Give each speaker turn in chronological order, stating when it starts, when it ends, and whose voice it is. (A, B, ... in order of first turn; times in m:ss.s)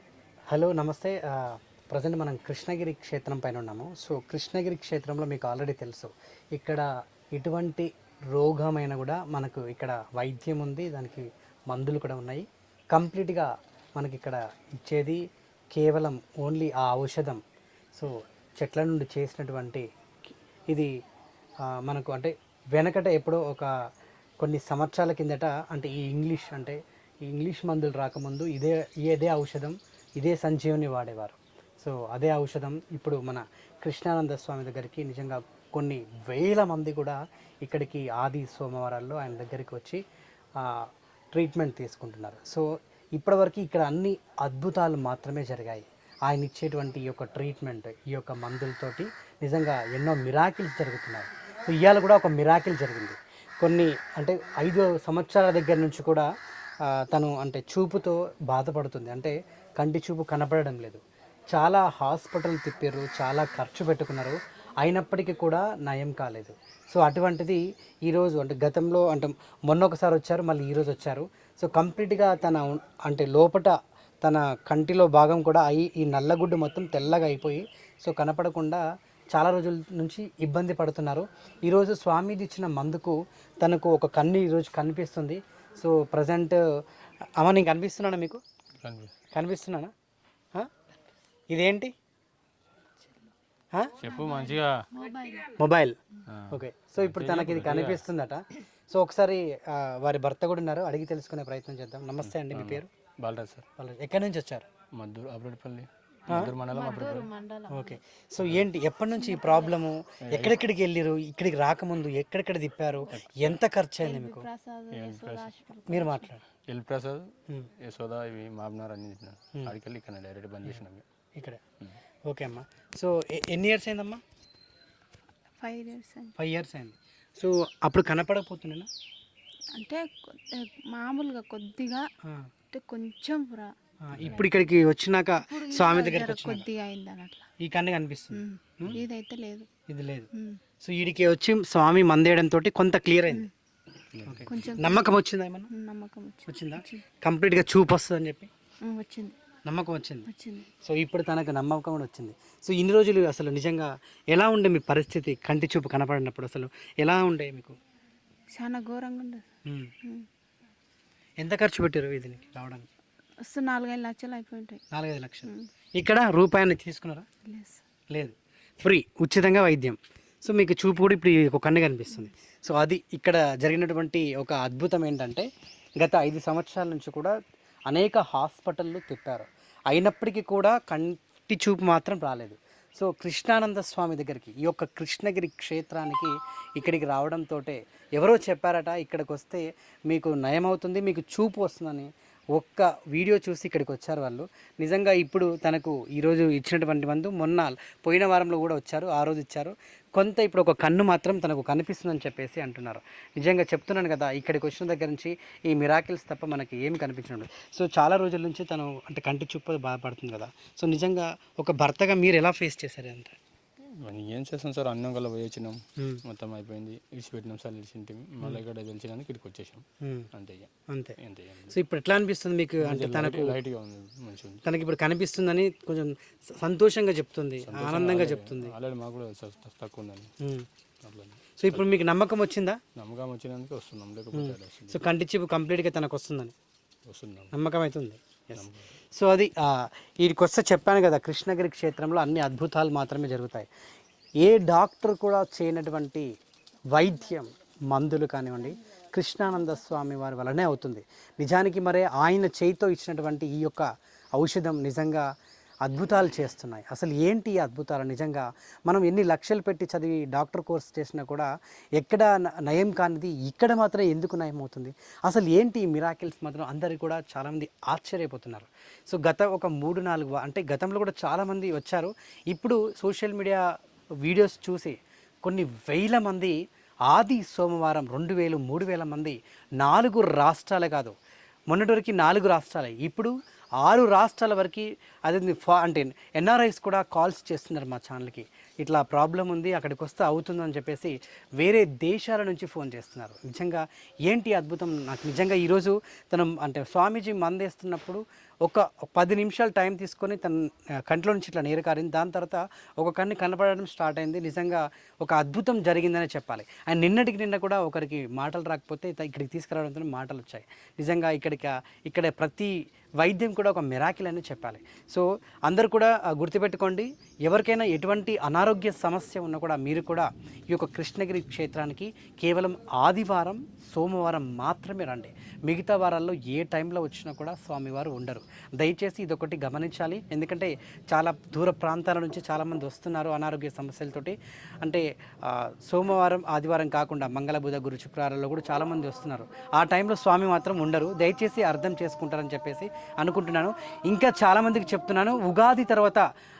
0:00.5-0:15.2 A
0:15.7-0:17.4 A
0:18.6-0:19.8 A
0:21.7-0:23.7 A
0:24.4-0:40.0 A
0:40.6-0:42.6 A
0:43.2-0:56.3 A
0:56.9-1:01.0 A
1:01.5-1:18.8 A
1:19.3-1:26.6 A
1:27.4-1:28.4 A
1:28.8-1:29.1 B
1:29.3-1:29.9 A
1:31.5-1:31.9 A
1:33.7-1:34.1 A
1:34.0-1:34.9 B
1:34.2-1:35.5 C
1:35.5-1:36.0 A
1:36.3-1:38.0 B
1:36.5-1:42.9 A
1:42.2-1:43.6 B
1:43.8-1:44.6 A
1:45.0-1:47.3 B
1:46.3-1:46.5 A
1:46.7-1:48.0 C
1:47.7-1:54.5 A
1:49.3-1:49.8 C
1:50.3-1:50.6 B
1:53.1-1:53.6 B
1:54.0-1:56.3 C
1:54.9-1:55.5 B
1:55.9-1:56.4 A
1:56.7-1:57.3 B
1:57.8-2:01.0 B
2:02.2-2:04.2 A
2:05.6-2:06.3 C
2:06.4-2:08.9 A
2:09.7-2:12.0 C
2:12.7-2:13.7 C
2:14.0-2:16.6 A
2:14.1-2:14.4 B
2:15.5-2:17.4 C
2:17.6-2:19.0 A
2:18.3-2:19.7 C
2:19.9-2:20.3 A
2:20.3-2:20.6 C
2:20.8-2:23.5 A
2:24.2-2:24.4 B
2:24.2-2:25.7 A
2:24.5-2:25.2 C
2:25.7-2:27.0 C
2:26.4-2:28.5 A
2:28.8-2:29.4 C
2:29.6-2:30.3 A
2:30.3-2:30.7 C
2:30.8-2:37.8 A
2:38.5-2:39.4 C
2:39.6-2:39.9 A
2:41.4-2:42.9 A
2:43.4-2:44.8 C
2:44.9-2:47.2 A
2:47.4-2:47.8 C
2:48.1-2:55.5 A
2:56.0-2:57.3 A
2:57.9-3:33.4 A
3:34.0-3:39.8 B
3:40.0-3:40.3 A
3:40.3-3:40.7 B
3:40.9-3:41.2 A
3:41.2-3:41.7 B
3:41.7-3:43.6 A
3:42.8-3:44.6 B
3:44.6-3:48.7 A
3:47.6-3:50.3 B
3:50.4-3:50.6 A
3:51.0-3:51.8 B
3:51.6-3:52.8 A
3:53.0-3:55.0 B
3:54.3-3:56.5 A
3:57.1-3:57.5 B
3:57.5-4:03.7 A
3:58.5-3:58.9 B
4:04.4-4:06.3 A
4:06.9-4:13.8 A
4:14.4-4:15.2 A
4:15.8-4:33.6 A
4:34.2-4:36.6 A
4:37.1-4:41.1 A
4:41.7-5:46.2 A